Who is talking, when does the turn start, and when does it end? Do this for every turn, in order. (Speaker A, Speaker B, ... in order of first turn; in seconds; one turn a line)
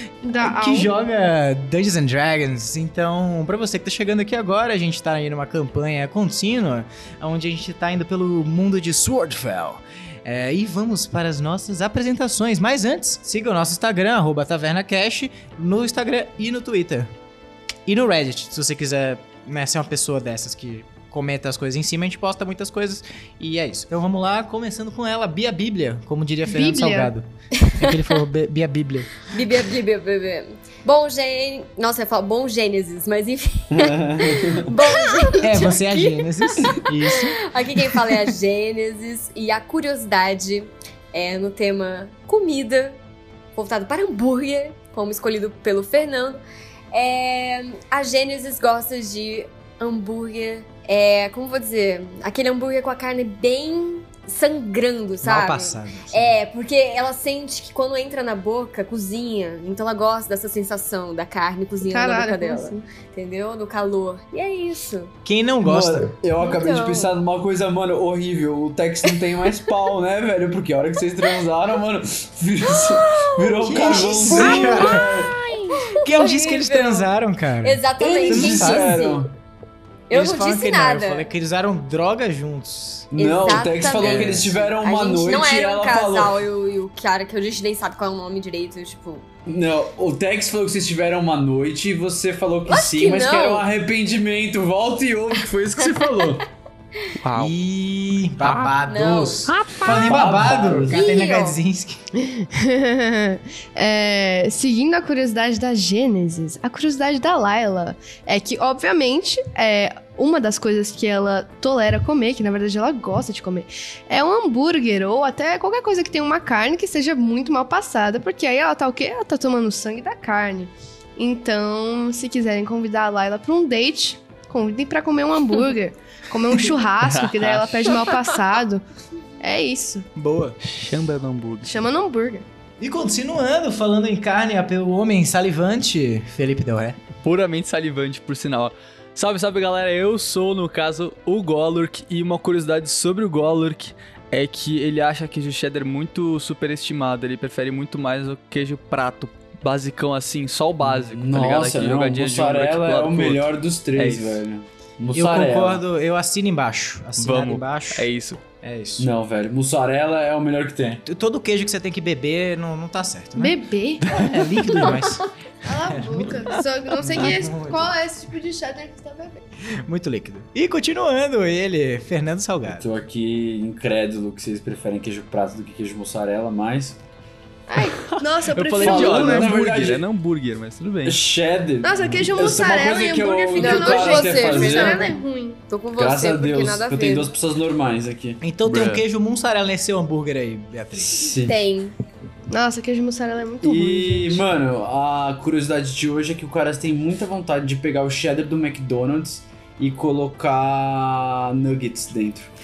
Speaker A: 0.2-0.9
Speaker B: 0.4-17.1
Speaker B: 17.9-29.2
Speaker A: 26.4-27.1
Speaker C: 27.5-28.0
Speaker C: 29.3-43.0
Speaker D: 33.7-34.7
Speaker B: 35.4-37.4
Speaker C: 43.5-65.1
Speaker B: 55.2-56.3
Speaker A: 61.9-62.8
Speaker B: 65.2-66.1
Speaker D: 65.6-75.3
Speaker C: 66.4-67.1
Speaker C: 72.6-77.1
Speaker B: 73.6-75.1
Speaker B: 75.9-77.8
Speaker C: 77.6-79.3
Speaker D: 78.0-79.3
Speaker B: 78.3-79.0
Speaker C: 80.1-81.3
Speaker B: 80.1-83.1
Speaker D: 83.1-86.4
Speaker C: 83.2-89.2
Speaker B: 84.0-84.5
Speaker D: 89.5-96.4
Speaker C: 92.7-93.7
Speaker C: 95.8-96.3
Speaker E: 97.2-97.5
Speaker B: 97.3-102.0
Speaker E: 98.4-98.8
Speaker C: 98.8-99.5
Speaker E: 99.5-100.4
Speaker D: 99.8-101.0
Speaker C: 100.9-101.6
Speaker A: 102.2-128.8
Speaker E: 127.0-128.1
Speaker A: 129.4-130.1
Speaker B: 130.2-130.6
Speaker E: 130.6-131.7
Speaker A: 131.6-132.4
Speaker B: 132.8-137.0
Speaker E: 137.2-154.4
Speaker D: 150.8-155.8
Speaker B: 155.1-158.1
Speaker E: 157.2-158.4
Speaker B: 158.6-159.1
Speaker D: 159.0-161.0
Speaker B: 161.0-165.3
Speaker A: 163.3-164.1
Speaker A: 165.6-169.4
Speaker B: 165.8-167.9
Speaker B: 169.8-172.8
Speaker D: 172.7-177.0
Speaker A: 177.7-179.6
Speaker E: 178.4-181.2
Speaker D: 178.8-180.0
Speaker D: 181.0-185.2
Speaker A: 181.8-185.6
Speaker C: 183.6-187.3
Speaker D: 186.0-188.4
Speaker B: 188.4-191.2
Speaker E: 188.7-189.0
Speaker D: 191.1-191.5
Speaker C: 191.4-191.9
Speaker A: 192.5-194.4
Speaker D: 193.6-202.5